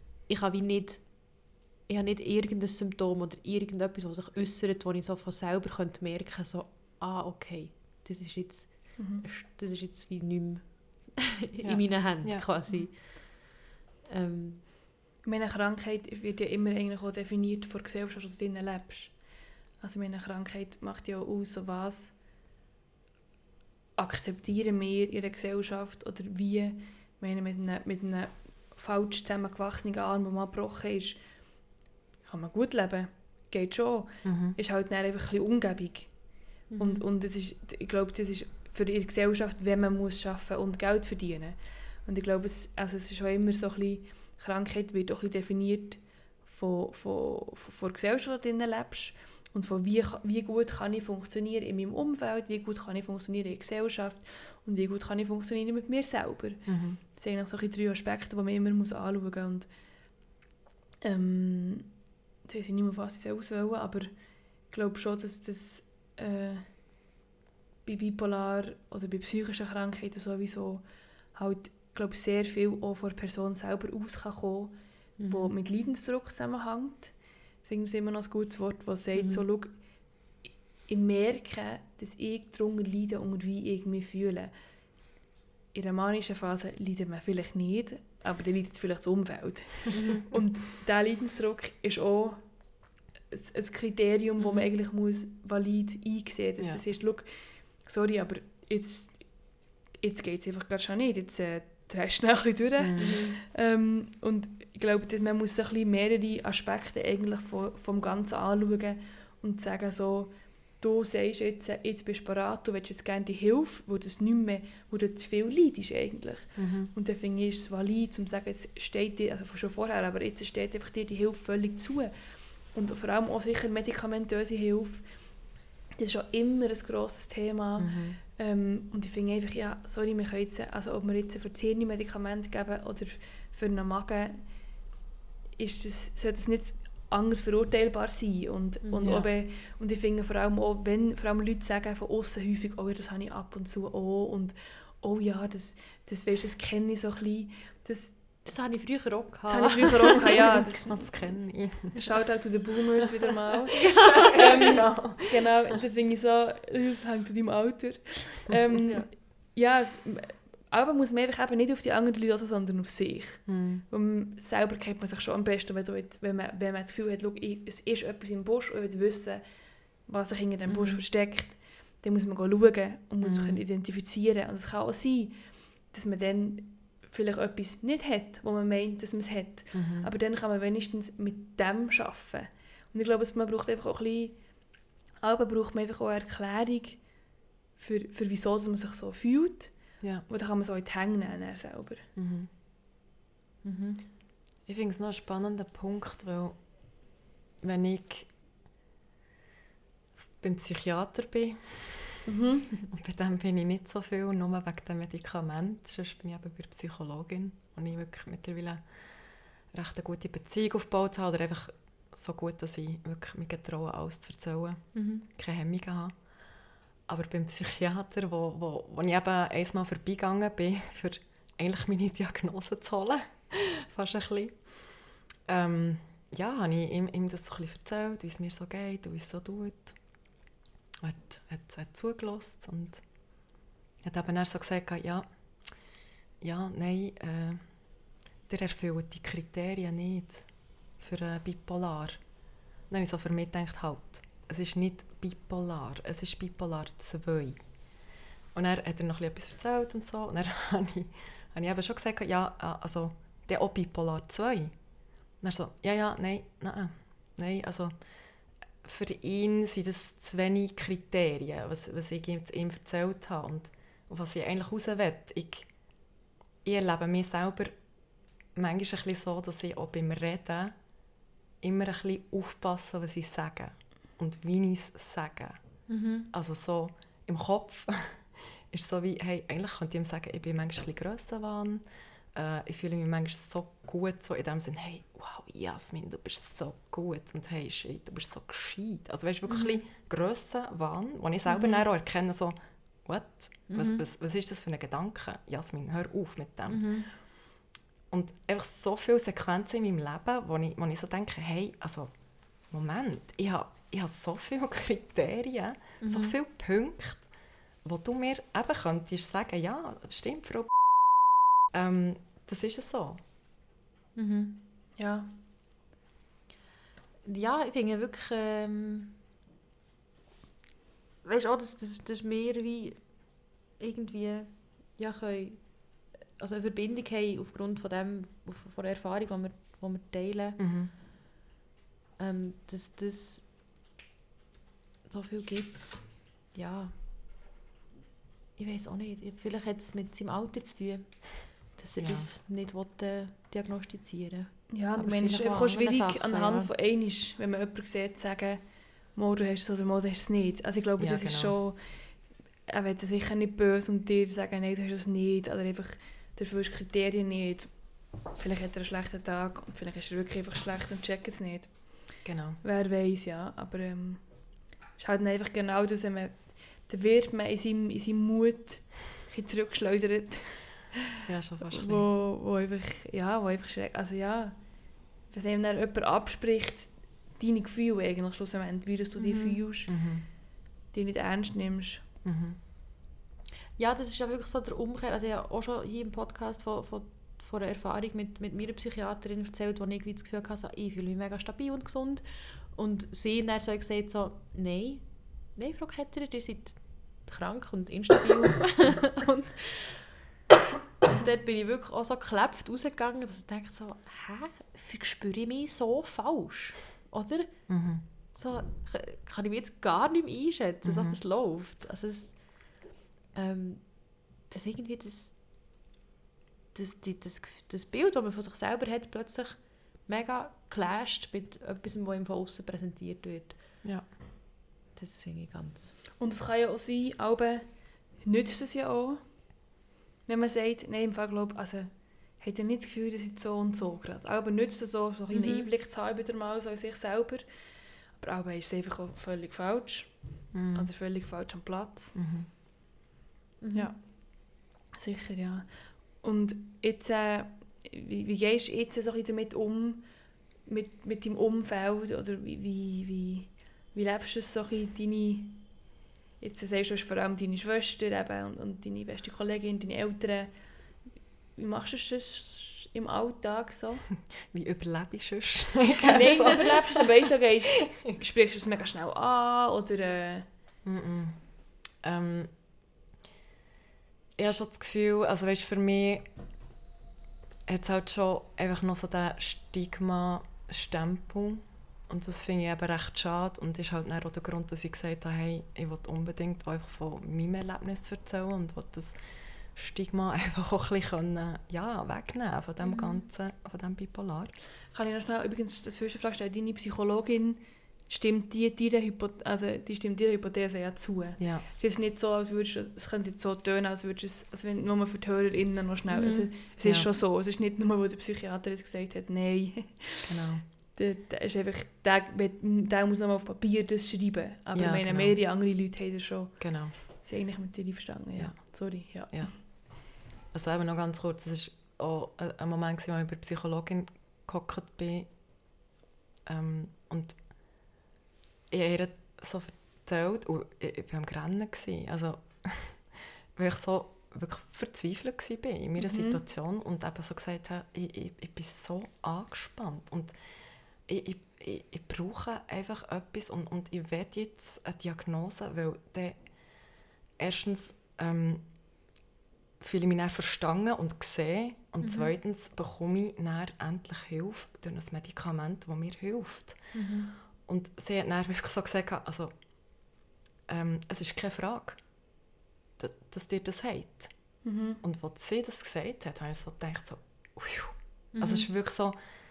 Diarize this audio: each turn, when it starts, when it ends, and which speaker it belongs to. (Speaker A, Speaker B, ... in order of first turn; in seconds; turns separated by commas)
Speaker A: 0.3-13.5, Speaker B: 9.0-9.3, Speaker C: 11.6-12.5, Speaker A: 14.1-14.6, Speaker B: 15.2-22.2, Speaker B: 23.9-59.7, Speaker C: 34.2-34.6, Speaker A: 36.7-37.0, Speaker C: 56.6-57.0, Speaker B: 61.0-67.0, Speaker B: 67.8-85.0, Speaker A: 75.2-75.5, Speaker A: 79.1-79.4, Speaker B: 85.7-134.9, Speaker A: 89.9-90.2, Speaker A: 94.4-94.7, Speaker C: 102.8-103.2, Speaker A: 103.0-103.3, Speaker C: 116.5-116.9, Speaker C: 127.8-128.2, Speaker B: 135.5-148.4, Speaker A: 138.8-139.1, Speaker C: 139.0-139.3, Speaker A: 148.4-150.6, Speaker B: 149.5-151.0, Speaker C: 150.3-152.2, Speaker B: 151.9-192.0, Speaker C: 153.7-155.5, Speaker A: 153.8-154.4, Speaker C: 163.4-163.8, Speaker A: 170.7-171.0, Speaker C: 173.2-173.6, Speaker C: 179.7-180.1, Speaker C: 190.0-190.2, Speaker C: 192.2-192.5, Speaker A: 193.6-194.1, Speaker C: 194.7-196.6, Speaker C: 197.6-198.3, Speaker C: 200.4-202.3, Speaker B: 202.2-202.8, Speaker C: 202.9-208.9, Speaker C: 209.7-216.2, Speaker A: 214.9-215.3, Speaker C: 217.1-229.9, Speaker C: 231.0-233.1, Speaker C: 234.0-235.9, Speaker C: 236.4-237.8, Speaker C: 238.5-242.2, Speaker C: 242.9-247.6, Speaker C: 248.5-254.7, Speaker C: 255.4-258.1, Speaker C: 258.8-265.7, Speaker C: 266.6-267.7, Speaker C: 268.5-270.7, Speaker C: 271.6-275.8, Speaker A: 275.9-276.3, Speaker C: 276.3-297.5, Speaker A: 289.5-289.8, Speaker A: 291.5-291.8, Speaker A: 293.7-294.0, Speaker A: 296.7-297.1, Speaker C: 298.1-302.1, Speaker C: 302.7-307.3, Speaker A: 306.0-306.4, Speaker C: 307.8-310.8, Speaker C: 311.7-313.2, Speaker A: 314.1-314.6, Speaker B: 314.9-315.4, Speaker A: 317.2-319.2, Speaker A: 321.2-330.6, Speaker C: 330.6-330.9, Speaker A: 332.2-333.5, Speaker A: 335.1-336.9, Speaker A: 338.6-346.7, Speaker C: 342.0-342.3, Speaker B: 344.7-370.9, Speaker C: 351.0-351.6, Speaker C: 362.2-362.6, Speaker C: 371.2-372.0, Speaker B: 371.7-382.0, Speaker A: 379.2-379.6, Speaker C: 379.9-380.3, Speaker C: 382.2-382.6, Speaker A: 383.8-400.1, Speaker A: 401.0-415.6, Speaker C: 407.7-408.0, Speaker C: 410.8-411.2, Speaker A: 416.7-423.8, Speaker C: 423.8-424.1, Speaker A: 424.9-425.9, Speaker B: 426.2-442.2, Speaker A: 435.3-435.7, Speaker C: 440.5-440.9, Speaker C: 442.1-442.5, Speaker A: 443.6-443.9, Speaker B: 443.7-455.9, Speaker B: 456.4-464.1, Speaker C: 464.5-467.1, Speaker B: 466.0-470.5, Speaker A: 466.1-466.5, Speaker C: 470.8-472.5, Speaker C: 474.4-476.2, Speaker C: 477.7-494.5, Speaker A: 492.8-493.2, Speaker B: 494.9-519.6, Speaker C: 501.4-501.6, Speaker A: 506.1-506.5, Speaker C: 506.8-507.1, Speaker C: 510.2-510.6, Speaker C: 514.7-515.4, Speaker C: 516.6-516.9, Speaker C: 518.4-525.3, Speaker C: 526.5-527.5, Speaker C: 528.7-540.4, Speaker B: 536.0-536.4, Speaker C: 541.0-548.7, Speaker C: 549.8-556.9, Speaker A: 552.0-552.3, Speaker A: 556.9-557.3, Speaker C: 557.6-559.5, Speaker C: 560.7-562.0, Speaker C: 563.0-569.2, Speaker B: 564.6-565.0, Speaker A: 568.3-568.7